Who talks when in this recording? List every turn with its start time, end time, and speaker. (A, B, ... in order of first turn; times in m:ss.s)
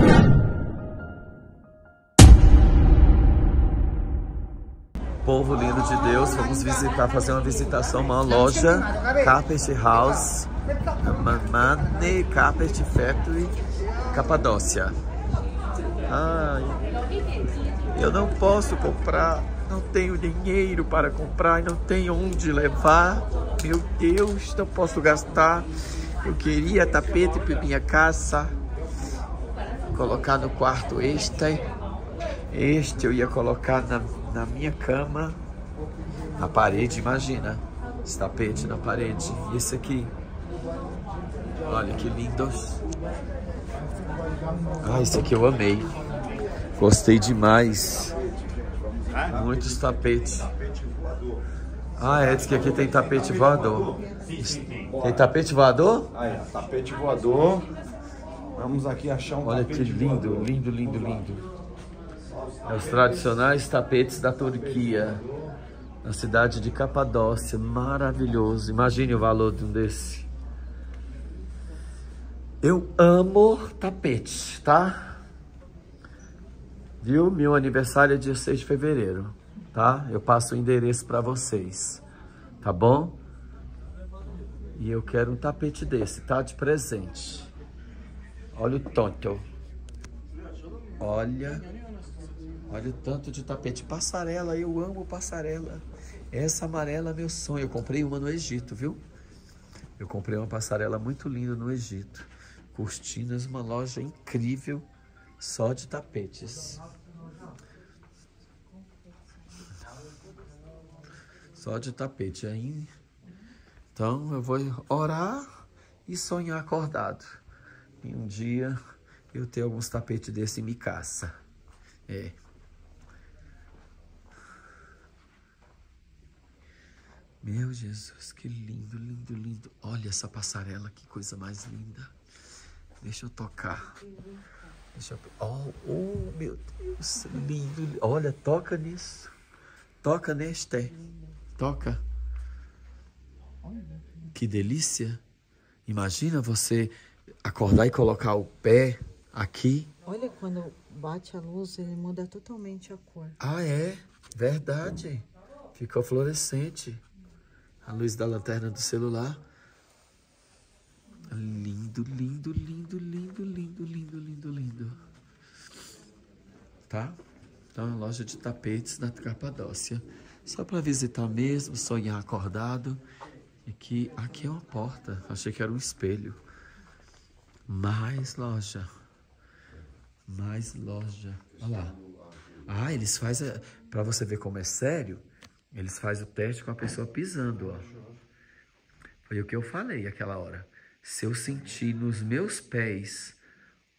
0:05.2-0:13.6 A
0:14.1-0:15.0 A
0:16.1-0:16.8 A
0:17.9-0:25.7 A
0:26.2-0:28.5 A
0:29.9-0:31.6 A
0:32.5-0:35.4 A
0:36.4-0:40.1 A
0:41.6-0:42.8 A
0:44.8-0:45.9 A
0:46.8-0:48.1 A
0:49.3-0:50.5 A
0:52.0-0:56.1 A
0:56.4-0:57.7 B
0:58.6-0:59.4 B
0:59.4-1:01.4 A
1:02.6-1:05.2 A
1:06.0-1:10.3 A
1:12.6-1:15.2 A
1:17.0-1:22.0 A
1:22.6-1:23.2 A
1:24.7-1:27.5 A
1:28.5-1:29.4 A
1:31.0-1:31.7 A
1:32.7-1:39.0 A
1:40.0-1:44.9 A
1:45.4-1:46.8 A
1:51.6-1:52.9 A
1:53.9-1:55.5 A
1:56.0-1:57.4 A
1:58.0-1:58.8 A
1:59.3-2:01.3 A
2:02.1-2:02.4 A
2:07.4-2:12.1 A
2:13.0-2:13.9 A
2:13.9-2:14.6 C
2:14.9-2:19.3 A
2:20.0-2:20.9 A
2:21.0-2:21.3 C
2:21.6-2:22.0 A
2:23.6-2:24.3 C
2:24.3-2:25.2 A
2:25.8-2:26.9 A
2:27.4-2:29.9 A
2:30.0-2:33.4 C
2:33.4-2:37.0 A
2:37.8-2:39.4 A
2:41.3-2:45.0 A
2:46.9-2:47.2 A
2:47.7-2:53.0 A
2:53.6-2:56.4 A
2:57.7-2:58.9 A
3:00.3-3:02.0 A
3:02.6-3:08.0 A
3:09.2-3:13.4 A